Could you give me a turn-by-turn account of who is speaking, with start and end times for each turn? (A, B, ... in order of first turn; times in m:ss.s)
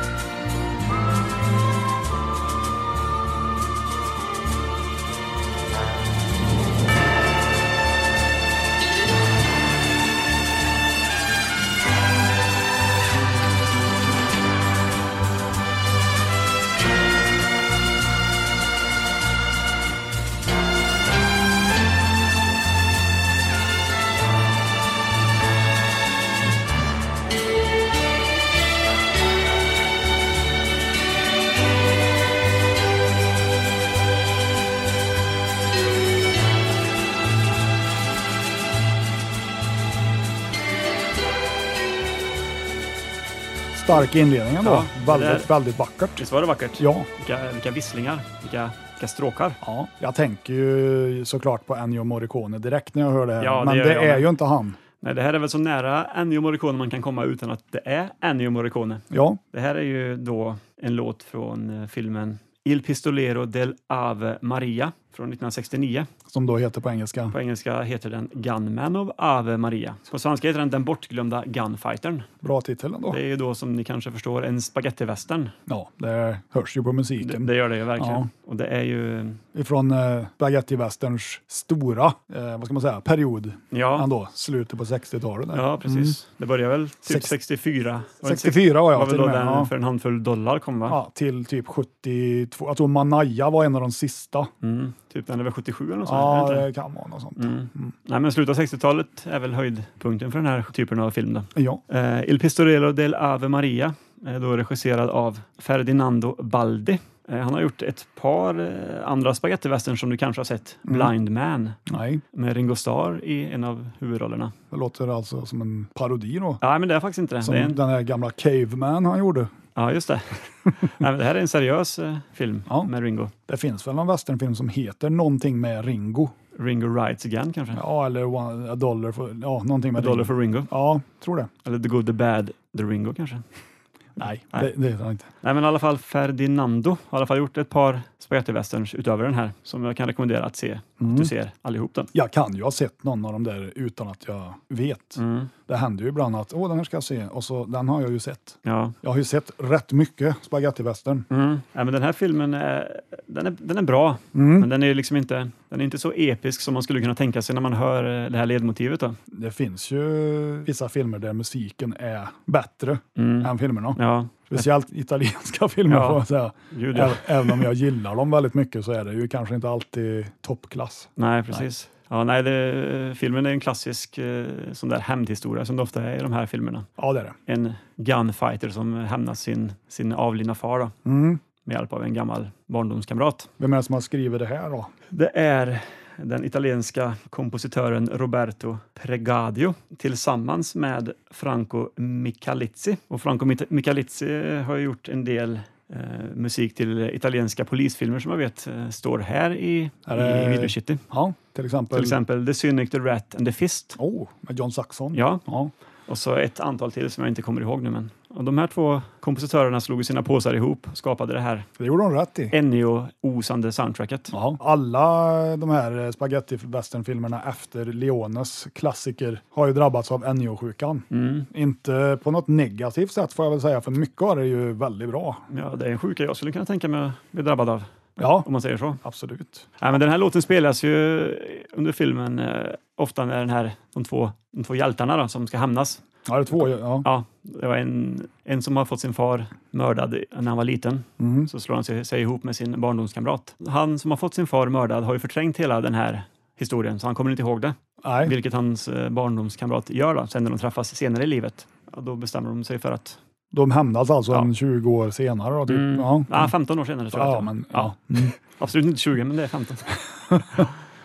0:43.7-0:46.2 A
0:44.6-0:45.5 B
0:46.2-0:49.6 B
0:46.8-0:47.1 A
0:49.6-0:54.8 A
0:53.4-0:54.3 B
0:55.0-1:06.1 B
0:59.1-0:59.4 A
1:06.3-1:07.3 A
1:07.3-1:12.3 B
1:12.4-1:13.2 A
1:13.1-1:15.5 B
1:15.7-1:18.3 A
1:17.2-1:19.4 B
1:19.5-1:26.2 A
1:23.7-1:24.1 B
1:25.5-1:31.0 B
1:27.0-1:27.3 A
1:28.2-1:29.7 A
1:30.9-1:34.5 A
1:34.6-1:36.7 B
1:36.0-1:37.9 A
1:37.4-1:51.8 B
1:41.5-1:41.8 A
1:50.8-1:51.1 A
1:51.9-1:52.2 A
1:52.3-1:54.5 B
1:54.7-1:56.6 A
1:56.6-1:57.8 B
1:57.4-1:59.5 A
1:59.8-2:03.3 B
2:03.5-2:06.3 A
2:06.5-2:07.8 B
2:07.7-2:11.5 A
2:10.0-2:10.7 B
2:11.6-2:13.4 B
2:14.2-2:15.3 A
2:15.4-2:22.1 B
2:21.0-2:21.3 A
2:22.1-2:31.3 A
2:25.2-2:25.5 B
2:28.6-2:28.9 B
2:31.3-2:39.2 B
2:34.3-2:34.7 A
2:39.3-2:51.6 A
2:43.2-2:44.6 B
2:45.9-2:47.7 B
2:51.2-2:56.9 B
2:57.0-2:57.4 A
2:57.5-3:00.9 B
3:01.0-3:01.4 A
3:01.6-3:03.5 B
3:03.6-3:04.9 A
3:05.1-3:21.0 B
3:20.0-3:22.2 A
3:21.9-3:24.0 B
3:24.0-3:25.7 A
3:25.1-3:25.4 B
3:26.1-3:31.7 B
3:31.8-3:32.5 A
3:32.5-3:34.3 B
3:34.3-3:45.4 A
3:41.1-3:41.5 B
3:45.5-3:47.9 B
3:48.2-3:48.5 A
3:48.4-3:49.0 B
3:49.0-3:49.8 A
3:49.8-3:56.0 B
3:56.2-3:57.1 A
3:56.5-4:13.2 B
4:01.2-4:01.5 A
4:08.0-4:08.3 A
4:13.5-4:16.5 A
4:15.7-4:20.0 B
4:17.1-4:18.3 A
4:20.3-4:20.6 A